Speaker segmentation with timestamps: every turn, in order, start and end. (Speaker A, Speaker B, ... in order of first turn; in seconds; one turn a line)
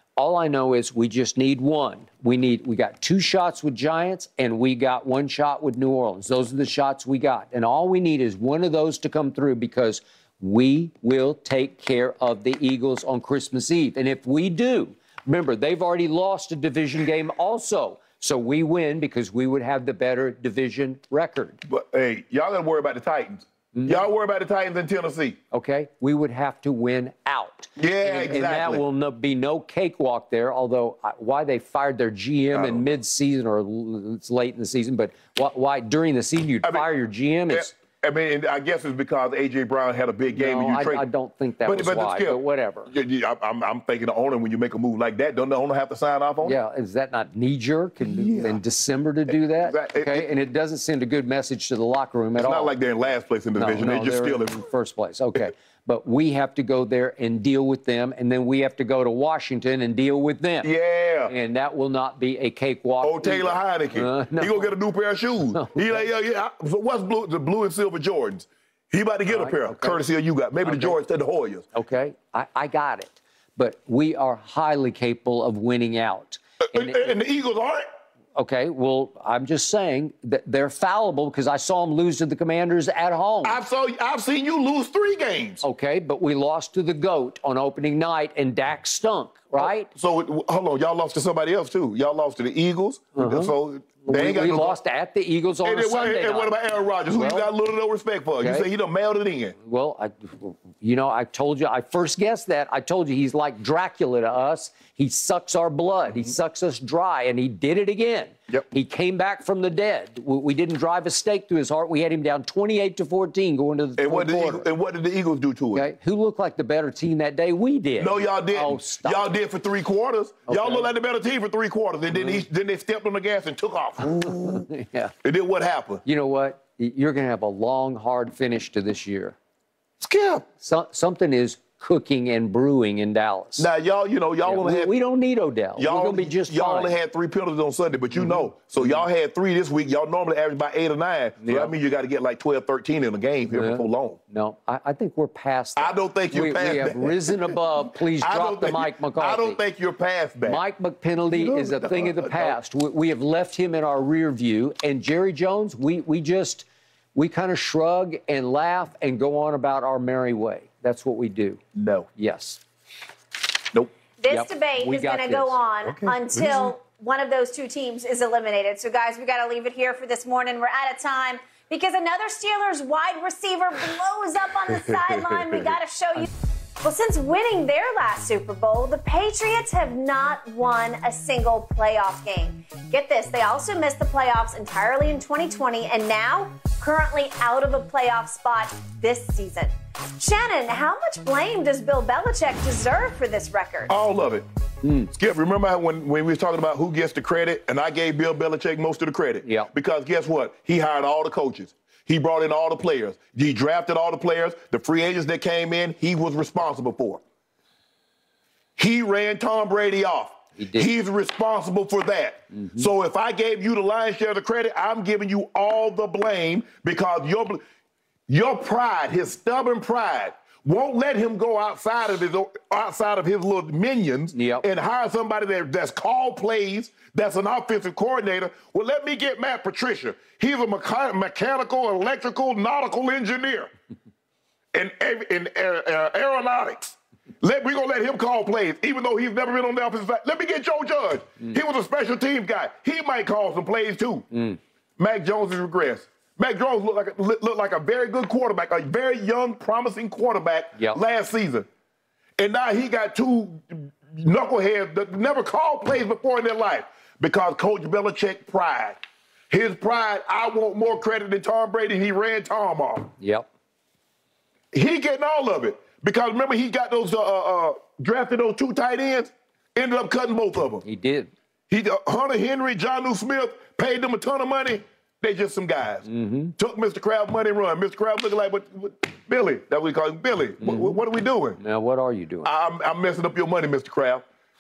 Speaker A: 0.2-21.6
Speaker B: 21.6-25.4
Speaker A: 23.7-24.0
Speaker A: 25.5-37.7
Speaker B: 27.8-28.8
Speaker B: 32.5-32.9
Speaker B: 37.5-41.0
Speaker A: 40.3-42.9
Speaker B: 41.6-46.6
Speaker A: 46.4-52.8
Speaker B: 48.0-48.6
Speaker B: 49.6-50.3
Speaker B: 52.4-54.6
Speaker A: 53.5-60.7
Speaker B: 60.6-61.3
Speaker A: 61.3-64.8
Speaker B: 63.0-71.7
Speaker A: 65.5-66.1
Speaker A: 69.3-70.0
Speaker A: 70.6-71.0
Speaker A: 71.7-77.2
Speaker B: 76.7-77.8
Speaker A: 78.3-83.6
Speaker B: 83.4-85.6
Speaker A: 85.6-89.9
Speaker B: 89.6-94.8
Speaker A: 93.2-93.5
Speaker A: 94.0-97.5
Speaker B: 95.6-99.5
Speaker A: 98.4-98.7
Speaker A: 99.6-114.7
Speaker B: 114.0-115.9
Speaker A: 115.7-119.4
Speaker B: 118.0-124.6
Speaker A: 120.5-120.9
Speaker A: 122.1-122.5
Speaker A: 124.0-125.1
Speaker B: 125.2-126.0
Speaker A: 126.0-129.4
Speaker B: 130.0-130.4
Speaker A: 130.6-133.7
Speaker B: 133.6-134.9
Speaker A: 134.4-137.0
Speaker B: 135.8-144.2
Speaker A: 138.2-139.0
Speaker A: 141.4-141.7
Speaker A: 143.5-149.6
Speaker B: 145.8-150.6
Speaker A: 150.4-161.6
Speaker B: 151.3-152.6
Speaker B: 161.8-162.1
Speaker A: 162.2-162.6
Speaker C: 164.2-176.3
Speaker A: 164.3-165.6
Speaker B: 165.8-166.7
Speaker B: 174.9-175.7
Speaker C: 176.8-193.9
Speaker B: 193.9-194.5
Speaker A: 194.8-195.1
Speaker B: 195.1-207.2
Speaker A: 199.4-199.7
Speaker B: 208.8-217.6
Speaker A: 210.6-210.9
Speaker A: 212.6-212.9
Speaker B: 218.3-233.7
Speaker A: 224.3-224.7
Speaker B: 234.7-244.3
Speaker A: 244.3-244.6
Speaker B: 245.0-251.7
Speaker B: 252.4-259.0
Speaker B: 259.5-263.1
Speaker A: 263.2-263.5
Speaker B: 264.7-270.8
Speaker A: 270.8-271.3
Speaker B: 271.7-281.6
Speaker A: 276.1-276.5
Speaker A: 280.6-281.0
Speaker A: 281.6-282.5
Speaker B: 282.4-284.2